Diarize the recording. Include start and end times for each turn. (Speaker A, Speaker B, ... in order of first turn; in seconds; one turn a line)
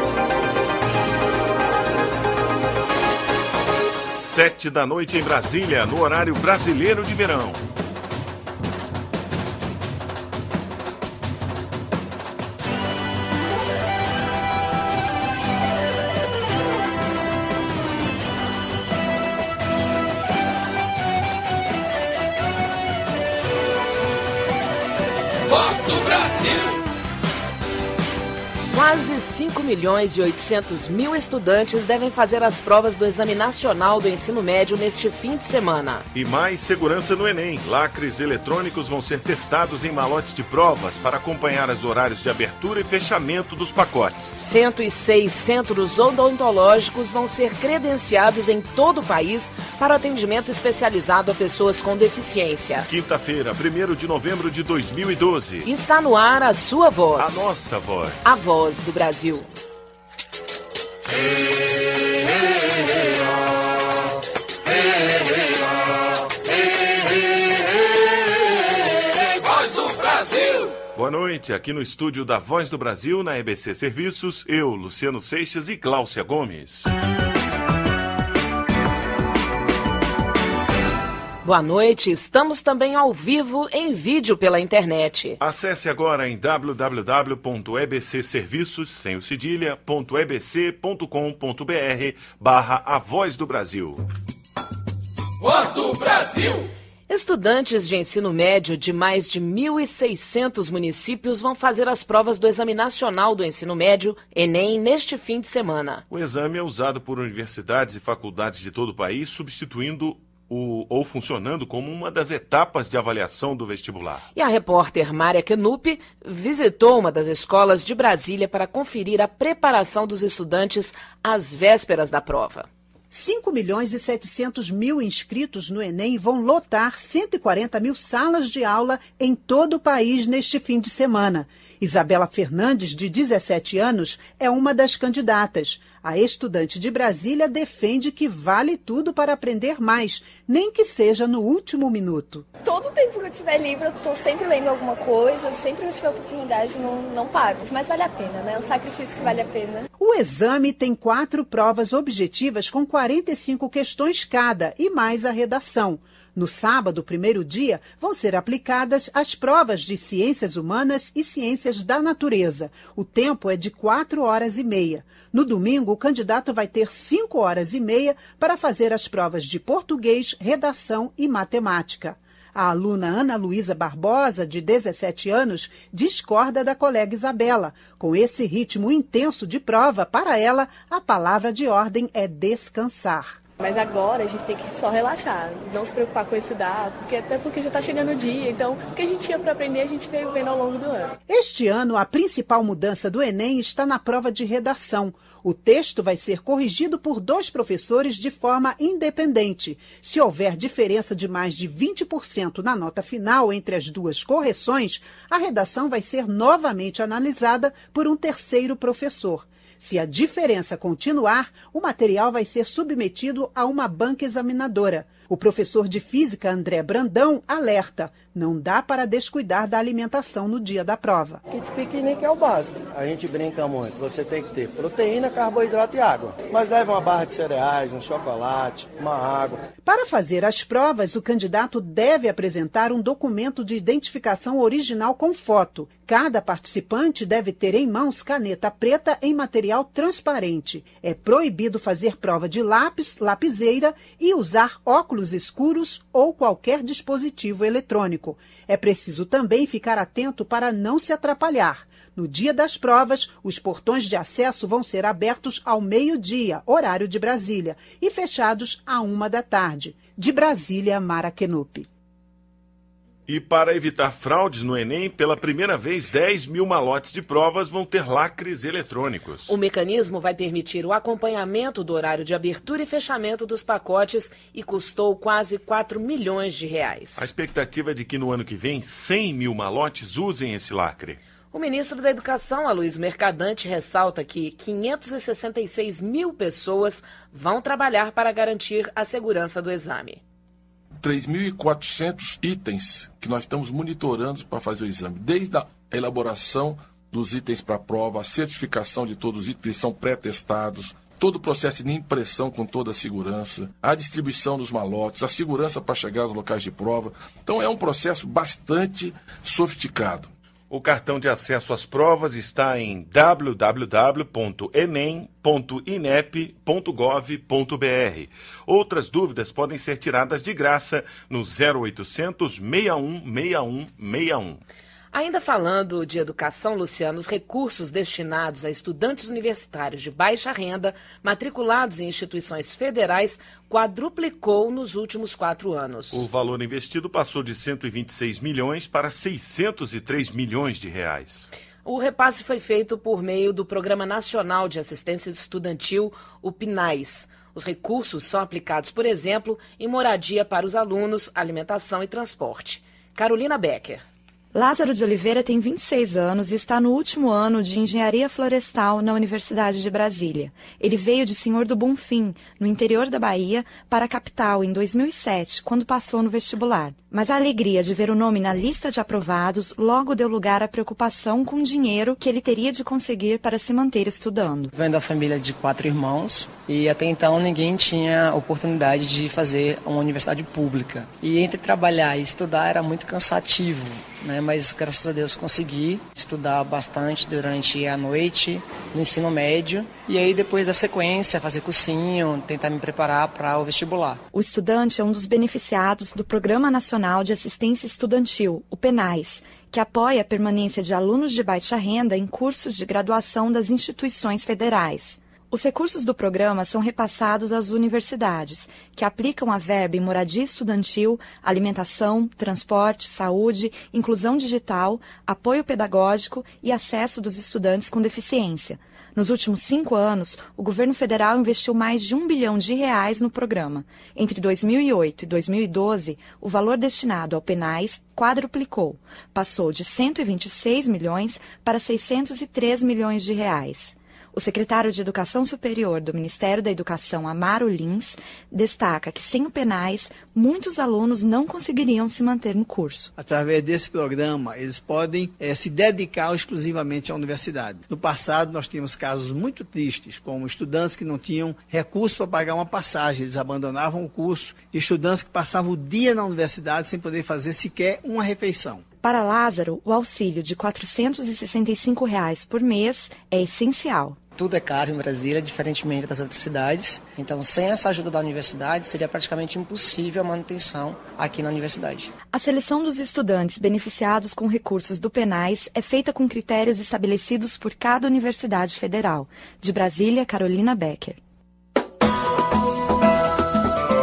Speaker A: 4.1-7.6
Speaker B: 28.7-36.1
Speaker A: 36.1-44.4
Speaker B: 44.4-52.9
Speaker A: 52.9-55.7
Speaker B: 55.6-57.5
Speaker A: 57.2-58.4
Speaker B: 58.2-59.5
Speaker A: 70.9-76.9
Speaker B: 81.4-85.4
Speaker A: 85.4-94.0
Speaker B: 97.1-106.0
Speaker A: 106.1-114.2
Speaker B: 114.3-122.7
Speaker C: 123.1-142.4
Speaker D: 142.6-149.8
Speaker C: 150.0-183.4
Speaker D: 183.6-191.1
Speaker C: 191.3-221.4
Speaker E: 221.5-229.6
Speaker C: 229.8-261.9
Speaker A: 263.3-269.5
Speaker B: 269.5-277.3
Speaker A: 277.2-281.2
Speaker B: 281.5-290.2
Speaker F: 291.0-310.3
Speaker A: 310.7-324.6
Speaker B: 325.1-336.2
Speaker A: 336.1-341.5
Speaker B: 341.8-354.0
Speaker G: 354.5-374.7
Speaker H: 374.7-394.2
Speaker G: 394.3-443.1
Speaker I: 443.2-458.8
Speaker G: 459.0-464.2
Speaker H: 464.3-472.1
Speaker G: 472.3-481.2